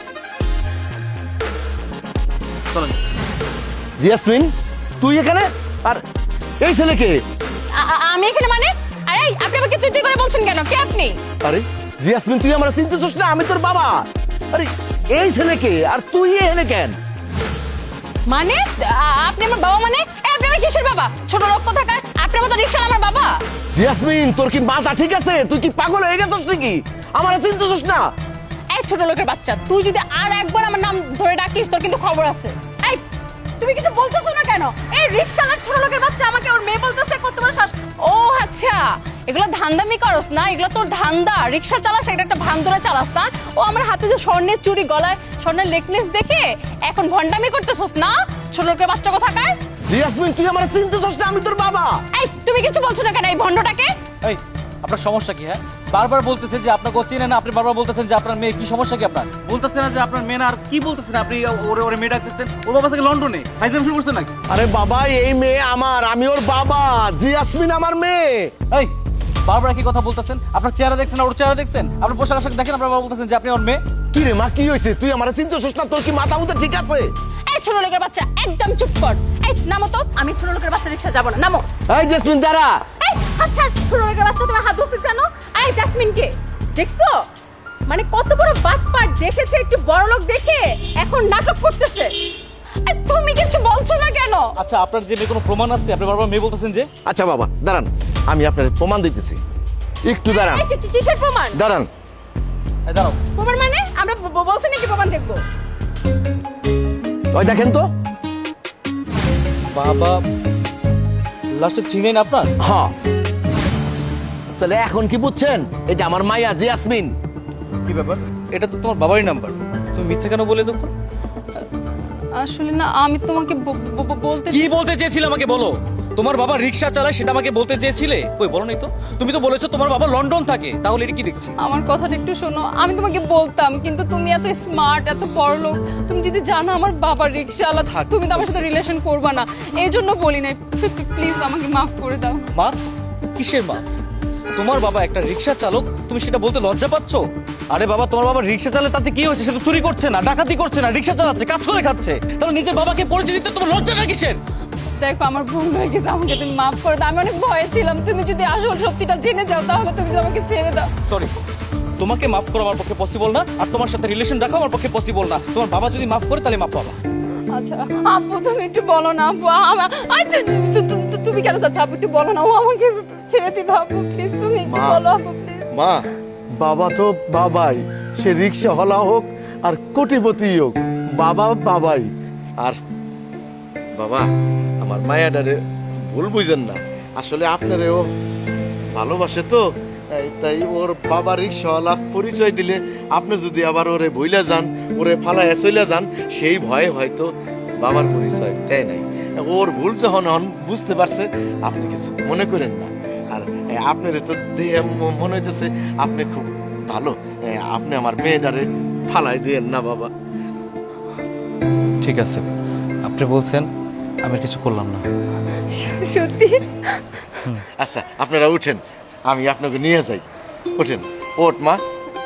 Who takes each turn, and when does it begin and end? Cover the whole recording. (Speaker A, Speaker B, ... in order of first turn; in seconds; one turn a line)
Speaker A: 4.0-6.0
Speaker A: 6.6-7.2
Speaker B: 7.7-11.2
Speaker A: 11.4-17.0
Speaker B: 18.3-23.4
Speaker A: 23.7-28.1
Speaker B: 28.7-33.0
Speaker B: 33.6-49.5
Speaker A: 49.9-52.0
Speaker B: 52.1-53.9
Speaker C: 54.2-64.3
Speaker A: 64.5-68.5
Speaker C: 69.4-73.8
Speaker A: 74.1-77.1
Speaker B: 77.5-81.7
Speaker A: 81.9-82.8
Speaker B: 83.0-87.2
Speaker B: 87.9-92.1
Speaker B: 92.8-94.5
Speaker C: 94.6-96.9
Speaker A: 97.0-99.4
Speaker A: 100.0-100.7
Speaker B: 100.3-101.6
Speaker A: 101.5-101.9
Speaker C: 102.8-103.2
Speaker B: 103.3-105.4
Speaker A: 107.3-107.9
Speaker C: 109.7-110.2
Speaker C: 111.5-112.5
Speaker A: 112.6-112.9
Speaker A: 114.6-117.1
Speaker C: 117.8-120.9
Speaker B: 122.3-124.8
Speaker C: 124.5-131.6
Speaker B: 131.6-142.4
Speaker C: 137.9-138.7
Speaker C: 143.3-143.9
Speaker C: 144.5-154.4
Speaker B: 155.0-160.9
Speaker C: 161.1-161.3
Speaker C: 162.0-167.0
Speaker B: 167.5-175.7
Speaker A: 174.7-175.0
Speaker A: 175.7-182.8
Speaker A: 183.9-184.3
Speaker A: 184.8-188.1
Speaker A: 188.9-210.1
Speaker C: 212.0-212.4
Speaker C: 213.0-213.7
Speaker C: 214.2-215.0
Speaker B: 215.7-216.9
Speaker A: 217.8-220.2
Speaker A: 220.8-221.8